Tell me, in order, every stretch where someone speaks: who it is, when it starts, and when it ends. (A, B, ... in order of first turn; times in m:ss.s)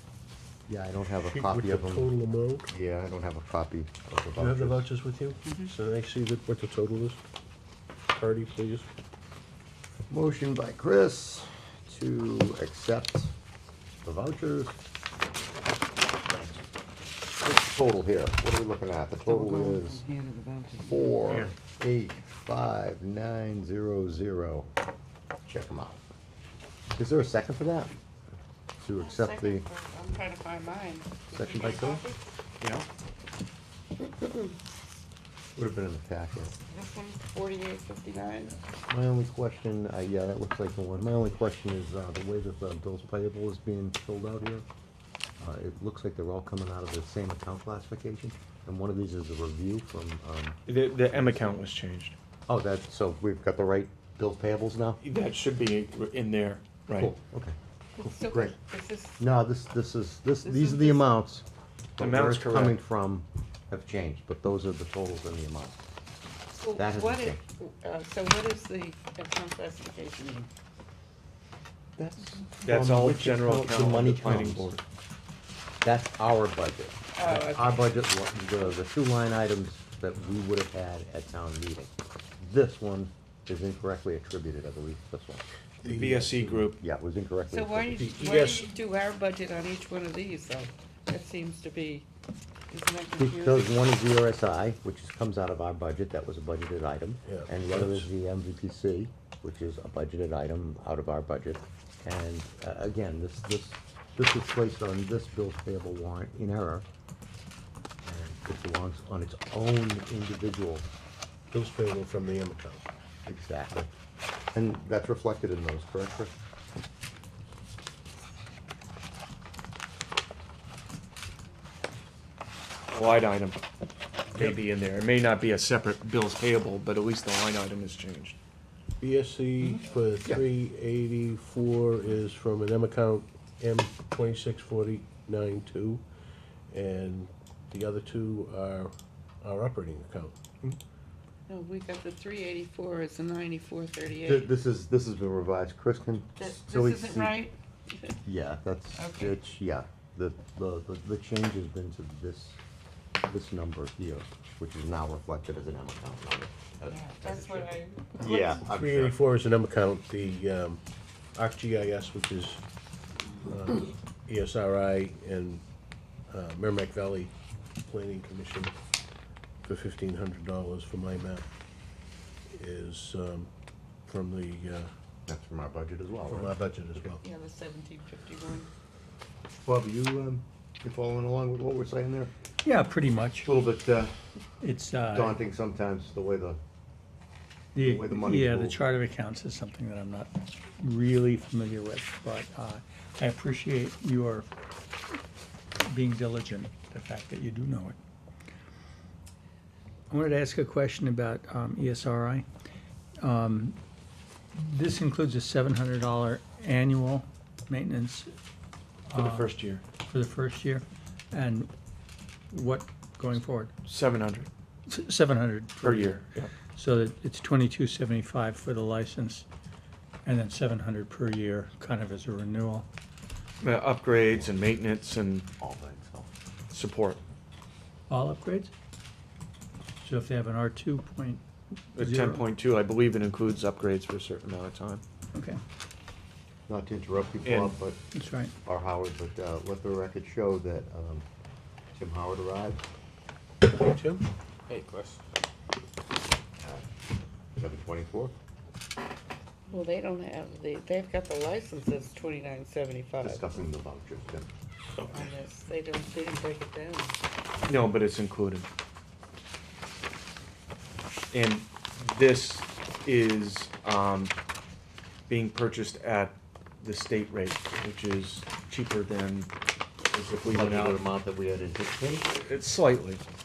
0:00.7-0:02.1 A
0:01.3-0:02.7 B
0:02.7-0:04.9 A
0:04.4-0:07.2 B
0:08.1-0:08.9 B
0:10.1-0:13.3 A
0:14.0-0:14.8 A
0:16.3-0:16.7 A
0:17.4-0:20.0 A
0:19.3-0:21.2 C
0:20.8-0:24.7 A
0:25.5-0:26.1 A
0:27.0-0:28.0 A
0:28.8-0:29.7 A
0:29.0-0:32.2 C
0:31.3-0:32.0 A
0:35.6-0:36.6 A
0:36.6-0:38.6 C
0:38.9-0:44.6 A
0:45.4-0:50.6 A
0:50.7-0:52.2 D
0:51.1-0:51.5 A
0:52.5-0:55.0 A
0:55.0-0:57.1 D
0:57.0-0:58.6 A
0:58.0-0:59.2 C
0:59.2-1:01.5 A
1:00.4-1:01.1 C
1:02.0-1:05.8 A
1:02.0-1:02.8 D
1:06.5-1:10.5 C
1:06.8-1:07.4 A
1:12.0-1:14.8 D
1:12.6-1:14.8 A
1:15.8-1:25.4 A
1:17.2-1:17.8 C
1:25.8-1:26.7 B
1:25.9-1:26.8 D
1:26.7-1:28.2 A
1:27.5-1:32.1 C
1:28.0-1:28.7 B
1:32.7-1:33.7 C
1:33.2-1:46.8 A
1:37.2-1:38.1 B
1:48.0-1:50.9 A
1:51.5-1:52.9 B
1:53.3-1:53.9 A
1:54.5-1:56.3 A
2:02.9-2:03.6 D
2:04.3-2:08.4 D
2:09.0-2:16.0 B
2:09.6-2:10.4 A
2:16.7-2:20.6 B
2:21.5-2:24.5 C
2:24.2-2:27.4 A
2:26.4-2:28.2 C
2:28.2-2:32.6 A
2:29.0-2:29.4 C
2:33.2-2:39.2 A
2:36.9-2:38.6 C
2:38.2-2:40.8 B
2:41.4-2:42.6 B
2:43.4-2:45.6 B
2:46.3-2:48.7 B
2:49.6-2:51.5 B
2:52.5-2:53.5 B
2:54.1-2:54.9 B
2:55.3-2:56.6 A
2:56.3-2:57.2 B
2:57.2-2:58.7 C
2:59.6-3:02.3 A
3:02.6-3:03.5 E
3:03.4-3:04.2 A
3:04.6-3:05.4 E
3:05.1-3:06.6 A
3:07.8-3:14.5 E
3:07.8-3:08.8 A
3:15.8-3:18.0 E
3:20.1-3:22.5 E
3:23.2-3:23.8 E
3:24.6-3:28.3 E
3:29.1-3:29.5 E
3:29.2-3:29.8 D
3:30.0-3:31.7 E
3:32.5-3:33.7 E
3:33.8-3:34.5 D
3:34.9-3:39.5 E
3:35.8-3:36.5 D
3:40.2-3:42.9 E
3:43.6-3:45.5 D
3:44.2-3:44.8 A
3:45.6-3:46.3 A
3:46.7-3:47.2 D
3:48.1-3:48.7 E
3:50.0-3:51.4 E
3:52.0-3:55.0 D
3:52.0-3:52.4 E
3:56.7-3:58.0 A
3:57.4-3:57.8 D
3:58.1-3:58.5 E
3:58.6-4:01.2 A
4:02.0-4:02.8 A
4:03.6-4:05.2 B
4:06.6-4:06.9 A
4:07.6-4:08.3 A
4:09.7-4:13.5 C
4:13.2-4:14.5 A
4:15.1-4:17.2 C
4:17.6-4:18.7 D
4:21.3-4:24.3 D
4:25.3-4:29.5 D
4:30.1-4:31.0 D
4:30.2-4:32.3 A
4:32.3-4:33.2 D